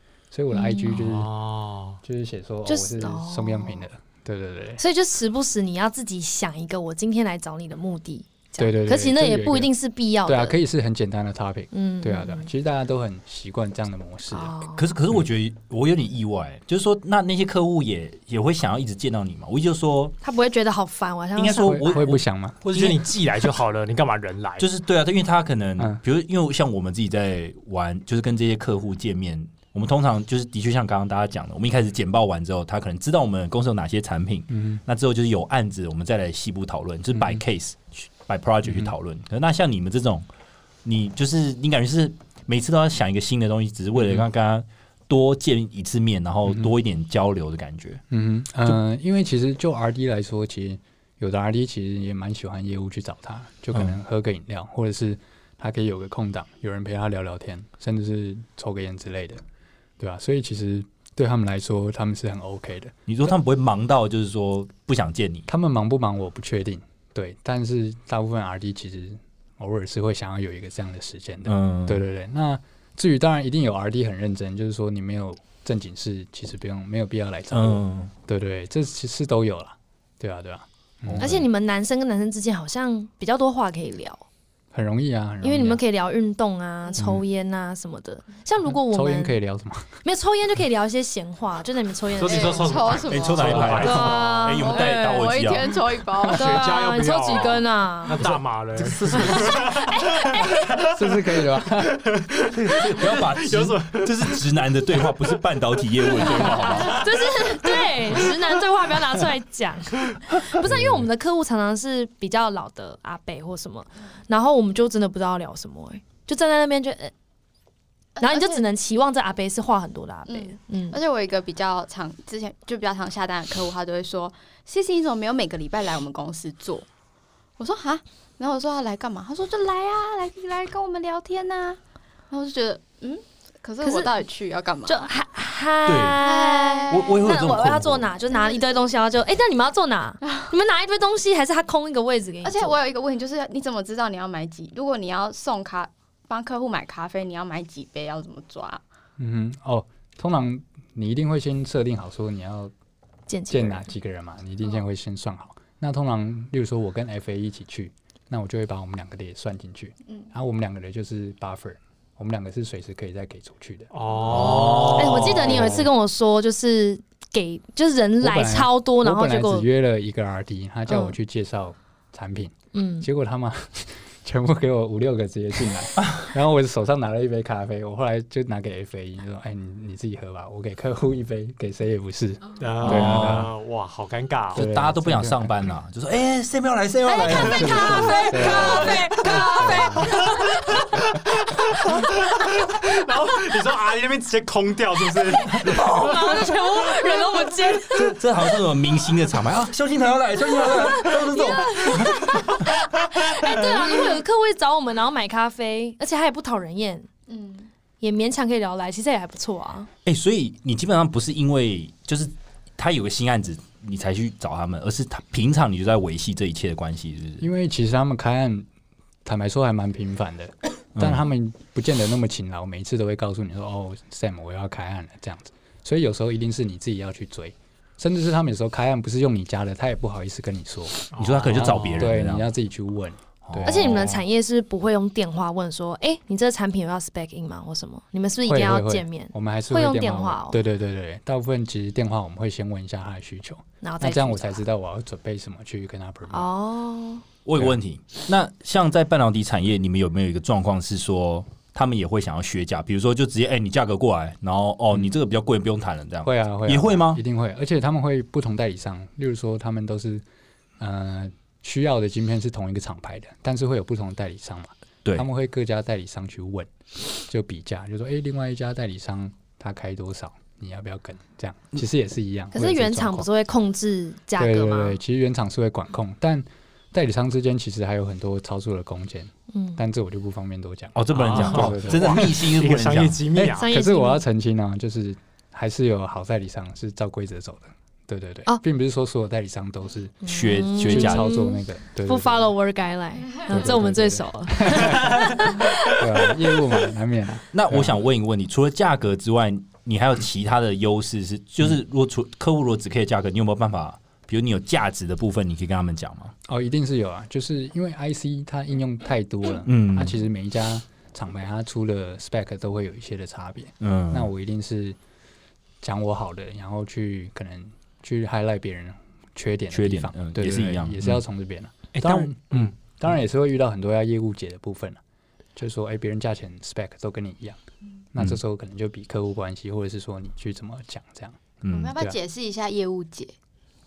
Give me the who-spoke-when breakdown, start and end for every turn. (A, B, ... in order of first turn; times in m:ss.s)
0:00.3-0:01.3 A
0:00.5-0:01.0 B
0:00.9-0:02.0 C
0:02.0-0:04.8 A
0:02.6-0:03.8 B
0:04.8-0:10.6 B
0:08.6-0:09.7 A
0:10.2-0:14.6 A
0:11.7-0:12.5 B
0:14.3-0:14.9 B
0:14.8-0:20.1 D
0:20.2-0:22.0 B
0:21.4-0:23.0 D
0:21.6-0:22.6 A
0:22.6-0:24.6 C
0:24.6-0:40.2 D
0:34.5-0:34.8 A
0:37.1-0:37.4 A
0:38.6-0:38.9 A
0:40.8-0:48.0 D
0:43.9-0:44.2 A
0:48.1-0:59.4 A
1:00.0-1:03.3 A
1:03.1-1:05.5 D
1:05.5-1:21.5 A
1:11.4-1:12.0 D
1:17.5-1:18.1 D
1:21.1-1:21.4 D
1:21.2-1:24.2 B
1:24.7-1:25.8 A
1:25.4-1:29.4 B
1:28.7-1:29.9 A
1:30.0-1:33.0 B
1:32.2-1:34.5 C
1:32.2-1:36.6 E
1:33.1-1:35.7 D
1:33.6-1:35.3 B
1:36.2-1:45.2 C
1:36.2-1:38.2 B
1:38.3-1:39.7 D
1:39.1-1:40.7 B
1:40.9-1:42.0 A
1:42.5-1:47.1 D
1:46.2-1:48.4 C
1:46.2-1:57.1 B
1:58.2-1:58.6 E
1:58.2-2:01.0 B
2:00.3-2:06.8 E
2:07.6-2:11.8 E
2:12.3-2:15.0 E
2:13.8-2:14.1 B
2:14.9-2:22.8 B
2:15.8-2:16.2 D
2:16.2-2:17.2 E
2:16.9-2:18.1 D
2:18.3-2:18.6 E
2:22.4-2:28.8 E
2:29.2-2:32.7 A
2:33.3-2:33.9 B
2:33.5-2:44.6 A
2:43.9-2:45.8 C
2:44.3-2:45.8 D
2:45.0-2:49.6 B
2:48.2-3:03.5 A
2:50.9-2:51.2 B
2:52.7-2:53.1 B
2:56.0-2:56.3 D
3:02.6-3:04.6 C
3:02.8-3:03.5 D
3:04.5-3:09.5 D
3:04.5-3:05.6 A
3:07.0-3:10.9 B
3:07.4-3:10.2 A
3:08.0-3:08.9 C
3:10.0-3:16.0 C
3:12.0-3:12.5 B
3:15.5-3:18.1 B
3:15.6-3:16.5 D
3:17.8-3:22.6 D
3:20.7-3:27.1 B
3:23.4-3:24.0 D
3:27.3-3:27.7 E
3:28.0-3:29.9 B
3:30.0-3:37.5 D
3:37.4-3:38.7 A
3:39.2-3:54.0 A
3:41.0-3:41.2 D
3:51.1-3:52.1 C
3:51.2-3:52.5 D
3:53.4-3:54.2 D
3:53.6-4:00.6 B
3:58.4-4:06.5 A
4:03.8-4:04.6 B
4:06.3-4:07.2 B
4:07.4-4:17.2 D
4:16.2-4:20.2 A
4:20.8-4:33.3 A
4:32.5-4:35.0 B
4:34.4-4:42.3 A
4:39.5-4:39.8 B
4:40.9-4:43.5 D
4:41.1-4:43.7 C
4:43.5-4:44.2 B
4:43.7-4:52.5 A
4:50.2-4:56.0 B
4:50.2-4:51.3 D
4:53.5-4:57.9 A
4:57.5-5:06.3 D
5:06.4-5:15.0 A
5:09.6-5:10.2 D
5:13.8-5:14.3 D
5:15.8-5:25.0 A
5:19.7-5:21.2 D
5:21.9-5:22.7 C
5:25.6-5:27.6 A
5:28.1-5:31.4 A
5:31.6-5:31.9 D
5:31.7-5:33.3 E